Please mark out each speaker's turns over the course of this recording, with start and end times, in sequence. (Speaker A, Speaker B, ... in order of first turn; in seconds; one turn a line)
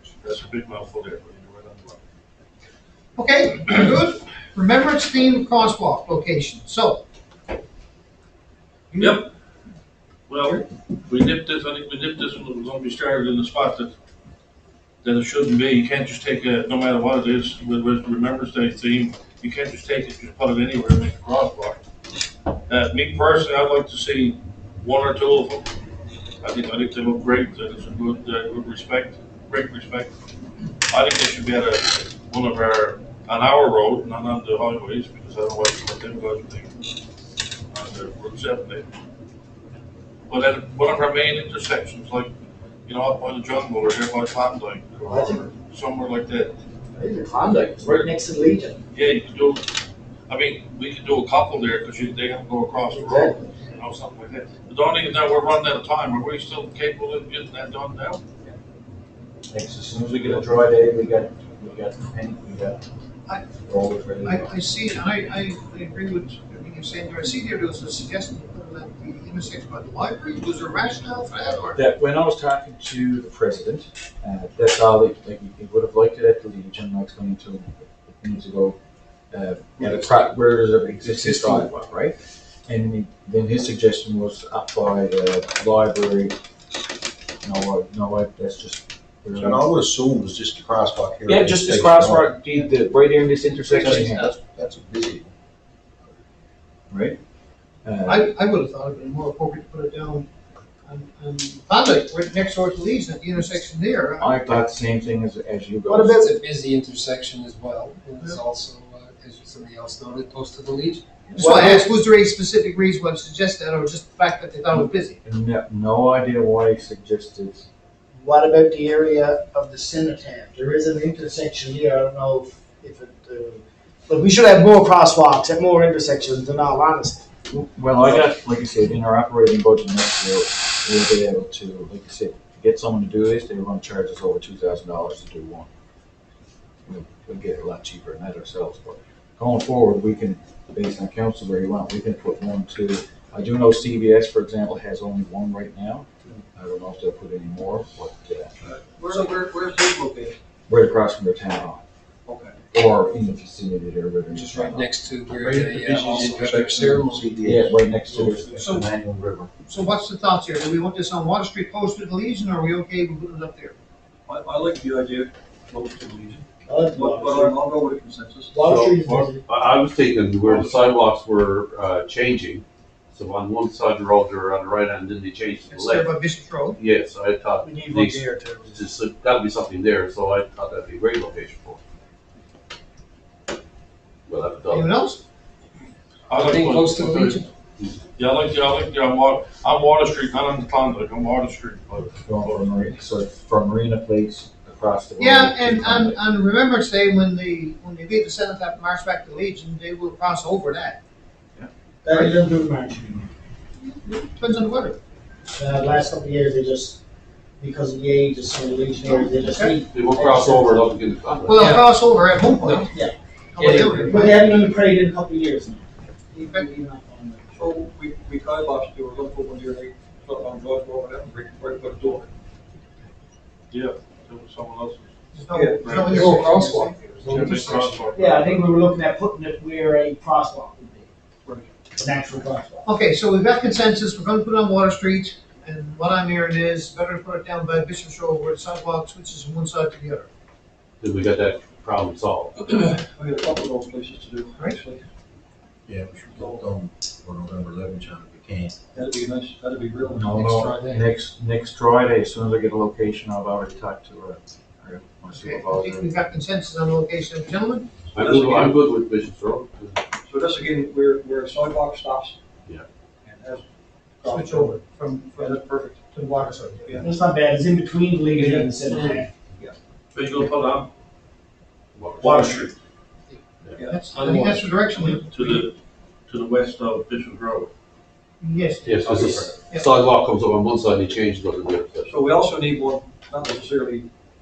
Speaker A: 0.2-2.0
Speaker B: 3.1-7.0
Speaker B: 8.9-9.3
Speaker A: 9.0-9.3
Speaker A: 10.3-13.9
Speaker A: 15.0-21.8
Speaker A: 22.7-25.6
Speaker A: 26.4-30.1
Speaker A: 30.9-36.7
Speaker A: 37.7-38.9
Speaker A: 40.3-42.3
Speaker A: 42.9-46.5
Speaker C: 45.0-45.5
Speaker C: 46.9-48.8
Speaker A: 48.9-49.6
Speaker A: 50.3-58.2
Speaker C: 52.9-53.5
Speaker D: 59.5-62.8
Speaker D: 63.5-64.5
Speaker B: 64.2-71.8
Speaker D: 71.7-78.8
Speaker D: 79.3-82.2
Speaker E: 79.9-80.2
Speaker E: 81.0-81.8
Speaker D: 82.7-86.3
Speaker D: 87.4-89.7
Speaker F: 89.3-92.3
Speaker D: 91.2-94.3
Speaker F: 93.7-95.3
Speaker D: 96.9-97.2
Speaker D: 97.8-98.3
Speaker B: 98.0-100.3
Speaker B: 100.8-104.3
Speaker D: 104.2-106.3
Speaker B: 105.9-106.3
Speaker E: 106.3-111.0
Speaker D: 111.3-111.5
Speaker B: 111.3-115.2
Speaker C: 111.4-111.8
Speaker D: 115.2-117.7
Speaker C: 118.2-127.2
Speaker D: 127.5-135.7
Speaker D: 136.8-148.5
Speaker G: 148.6-150.4
Speaker D: 150.7-151.8
Speaker G: 152.2-152.6
Speaker D: 152.7-154.9
Speaker E: 154.3-157.3
Speaker F: 155.3-159.5
Speaker D: 157.4-158.8
Speaker B: 158.6-158.9
Speaker B: 159.7-163.8
Speaker G: 164.3-168.7
Speaker C: 166.7-167.6
Speaker C: 168.5-169.4
Speaker H: 168.6-176.1
Speaker B: 175.7-176.8
Speaker H: 176.7-181.8
Speaker C: 177.6-178.9
Speaker H: 184.3-184.9
Speaker B: 184.7-185.2
Speaker A: 186.3-187.4
Speaker E: 186.3-187.5
Speaker A: 188.2-192.7
Speaker D: 192.2-196.2
Speaker B: 195.2-201.0
Speaker C: 202.0-203.3
Speaker B: 203.8-205.0
Speaker C: 205.5-207.0
Speaker C: 207.6-210.9
Speaker B: 209.0-209.8
Speaker H: 209.9-211.7
Speaker B: 211.3-212.9
Speaker E: 211.6-212.9
Speaker B: 213.5-214.6
Speaker E: 213.6-214.1
Speaker C: 213.8-217.7
Speaker B: 216.4-216.7
Speaker G: 217.6-222.3
Speaker A: 223.7-225.1
Speaker B: 225.3-227.4
Speaker G: 225.5-226.3
Speaker A: 225.8-226.5
Speaker E: 226.2-228.1
Speaker A: 227.2-228.8
Speaker C: 228.1-231.1
Speaker G: 231.4-231.7
Speaker C: 231.9-232.9
Speaker B: 232.8-240.3
Speaker H: 241.0-242.5
Speaker G: 242.6-245.0
Speaker F: 245.9-248.7
Speaker G: 246.2-246.7
Speaker G: 248.9-250.9
Speaker D: 250.1-256.1
Speaker B: 255.3-257.9
Speaker H: 258.1-260.0
Speaker G: 258.2-258.8
Speaker G: 260.2-262.4
Speaker G: 263.2-263.6
Speaker G: 264.2-264.8
Speaker B: 264.2-267.0
Speaker G: 265.3-266.0
Speaker C: 267.0-269.3
Speaker G: 268.4-268.7
Speaker A: 270.1-270.9
Speaker H: 271.9-272.5
Speaker G: 272.2-272.7
Speaker G: 273.8-274.1
Speaker B: 273.8-275.7
Speaker A: 274.1-275.8
Speaker A: 276.3-277.7
Speaker B: 278.4-279.9
Speaker H: 278.8-282.1
Speaker G: 282.1-284.1